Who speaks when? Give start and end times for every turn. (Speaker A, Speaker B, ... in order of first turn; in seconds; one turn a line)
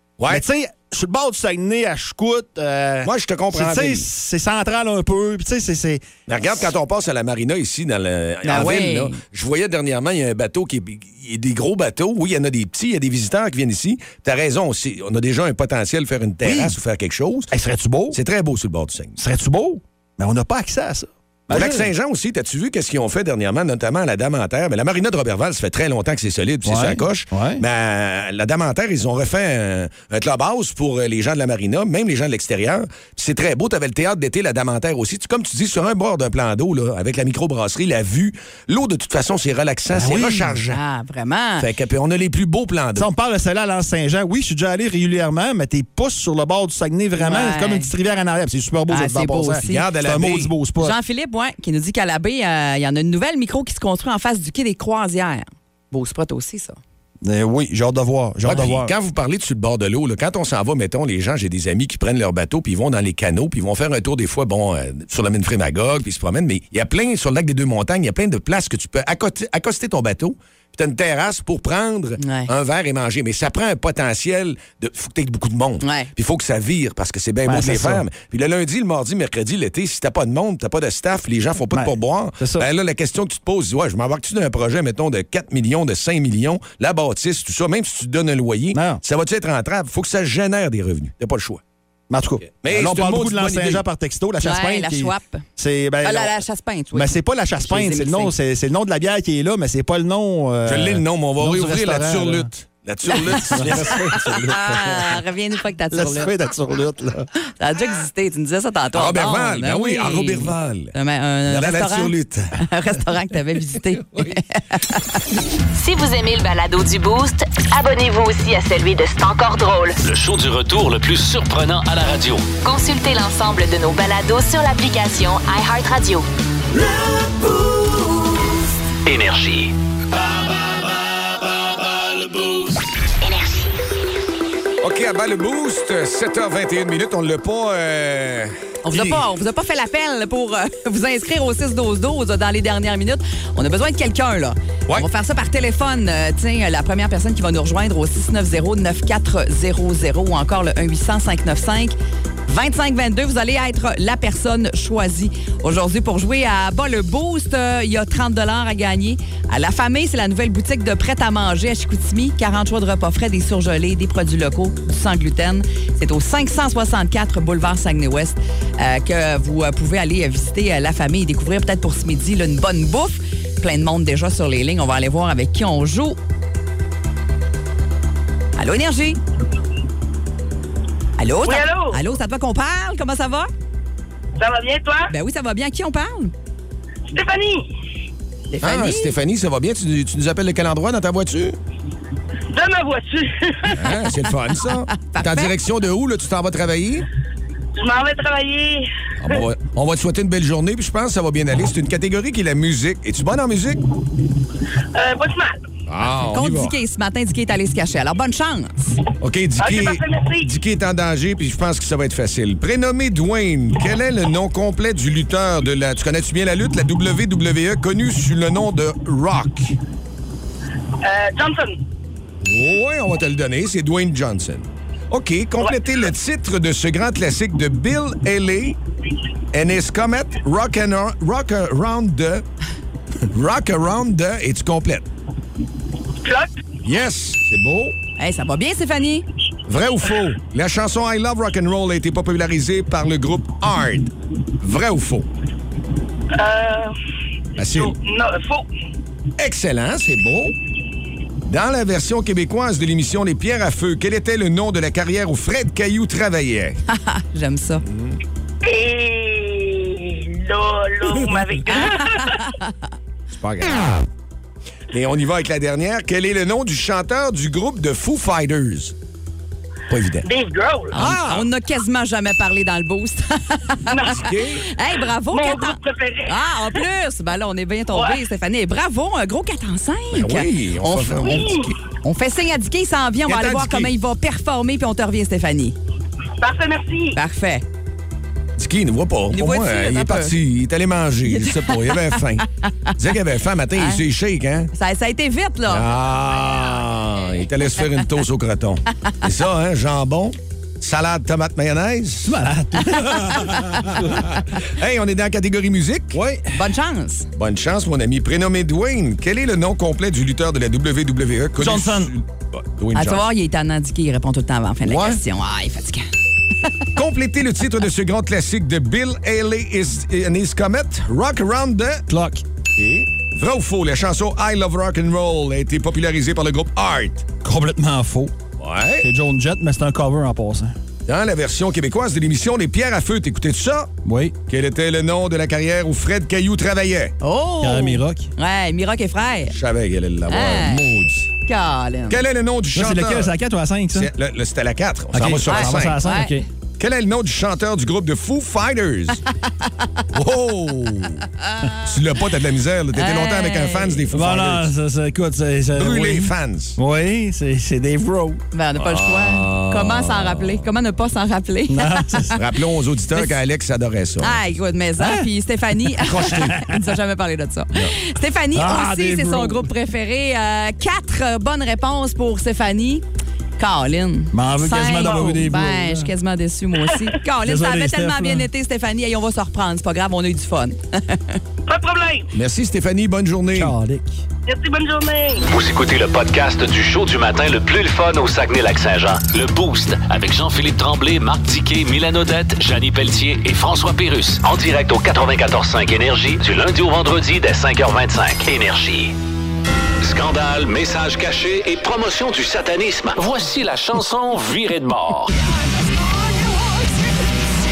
Speaker A: 0.2-0.4
Speaker B: 0.3-6.0
Speaker A: 3.0-4.1
Speaker A: 6.3-17.5
Speaker C: 8.4-9.2
Speaker B: 16.4-16.8
Speaker B: 17.5-18.2
Speaker A: 18.1-19.2
Speaker B: 19.2-21.9
Speaker A: 21.5-40.8
Speaker B: 26.6-27.6
Speaker B: 39.9-40.6
Speaker C: 40.7-41.7
Speaker A: 41.6-43.1
Speaker B: 43.0-51.0
Speaker C: 47.1-47.9
Speaker C: 48.9-49.7
Speaker A: 49.6-50.5
Speaker C: 50.8-56.8
Speaker B: 57.2-58.9
Speaker A: 58.4-91.6
Speaker C: 72.2-72.5
Speaker C: 75.8-76.1
Speaker B: 77.5-78.0
Speaker B: 81.7-82.7
Speaker B: 88.7-89.0
Speaker B: 92.1-96.4
Speaker A: 92.5-93.8
Speaker C: 94.4-95.5
Speaker C: 96.0-98.3
Speaker B: 96.9-102.5
Speaker A: 100.7-104.1
Speaker C: 103.3-106.3
Speaker B: 103.4-105.2
Speaker B: 105.9-107.3
Speaker C: 107.6-115.2
Speaker A: 108.9-110.9
Speaker A: 111.5-112.6
Speaker A: 113.9-114.4
Speaker D: 115.7-120.0
Speaker E: 120.0-122.5
Speaker D: 122.6-126.2
Speaker E: 129.1-130.9
Speaker E: 131.9-132.8
Speaker D: 133.2-133.7
Speaker A: 134.8-139.2
Speaker C: 138.8-151.9
Speaker C: 152.5-176.2
Speaker C: 178.6-179.2
Speaker C: 181.2-183.5
Speaker F: 181.4-182.0
Speaker F: 184.4-185.1
Speaker C: 185.1-186.3
Speaker F: 187.1-187.7
Speaker C: 188.5-189.1
Speaker A: 188.6-191.6
Speaker F: 192.5-193.8
Speaker A: 193.7-197.1
Speaker C: 194.6-195.5
Speaker F: 197.7-199.4
Speaker A: 199.2-203.8
Speaker F: 204.9-205.6
Speaker A: 205.9-206.7
Speaker C: 206.3-209.0
Speaker A: 209.2-219.7
Speaker F: 209.6-210.5
Speaker F: 221.0-221.8
Speaker A: 222.4-228.8
Speaker A: 229.5-232.4
Speaker A: 233.3-235.1
Speaker F: 236.2-236.5
Speaker A: 236.8-237.9
Speaker C: 238.2-239.2
Speaker A: 239.7-245.3
Speaker F: 246.3-246.9
Speaker A: 247.6-248.0
Speaker F: 247.7-248.7
Speaker A: 249.4-250.6
Speaker A: 251.4-256.8
Speaker C: 256.9-257.8
Speaker A: 257.9-258.2
Speaker F: 258.6-262.4
Speaker C: 261.7-262.9
Speaker A: 263.4-264.1
Speaker A: 264.9-268.9
Speaker A: 269.9-270.2
Speaker F: 270.2-270.9
Speaker C: 270.9-285.8
Speaker A: 270.9-271.4
Speaker F: 273.9-274.3
Speaker A: 274.1-274.6
Speaker F: 275.3-276.4
Speaker F: 277.9-278.2
Speaker A: 280.1-281.8
Speaker F: 281.3-281.6
Speaker A: 283.3-283.9
Speaker F: 286.4-287.2
Speaker C: 287.1-287.6
Speaker A: 288.6-294.7
Speaker C: 289.3-290.3
Speaker C: 291.3-292.9
Speaker C: 294.7-295.9
Speaker A: 295.7-302.4
Speaker B: 302.2-304.4
Speaker C: 302.9-304.0
Speaker A: 303.9-306.2
Speaker B: 306.1-306.6
Speaker C: 306.5-307.3
Speaker A: 307.4-313.2
Speaker B: 311.6-312.1
Speaker C: 312.9-316.1
Speaker A: 314.9-315.2
Speaker A: 316.9-322.1
Speaker B: 322.1-322.4
Speaker A: 322.8-327.2
Speaker B: 327.4-328.4
Speaker A: 328.6-329.1
Speaker B: 329.0-330.8
Speaker A: 331.1-333.9
Speaker B: 334.1-334.4
Speaker A: 334.5-337.1
Speaker C: 337.2-339.5
Speaker B: 337.6-338.3
Speaker A: 339.5-341.3
Speaker C: 340.3-340.8
Speaker C: 341.4-342.2
Speaker A: 342.1-343.3
Speaker B: 342.7-344.1
Speaker A: 343.9-346.0
Speaker B: 345.1-346.4
Speaker C: 345.4-346.4
Speaker A: 346.8-349.2
Speaker A: 350.1-354.7
Speaker C: 352.9-354.0
Speaker B: 354.1-358.4
Speaker A: 355.7-356.8
Speaker C: 358.5-362.4
Speaker A: 358.8-360.7
Speaker B: 361.7-362.4
Speaker A: 362.3-364.6
Speaker C: 364.2-373.0
Speaker B: 365.0-365.3
Speaker B: 366.0-366.8
Speaker B: 368.5-369.7
Speaker C: 373.6-381.4
Speaker B: 374.3-376.1
Speaker B: 377.4-378.5
Speaker F: 381.7-382.3
Speaker A: 382.3-383.8
Speaker B: 383.5-384.2
Speaker F: 384.4-385.4
Speaker E: 385.5-399.1
Speaker E: 400.0-405.3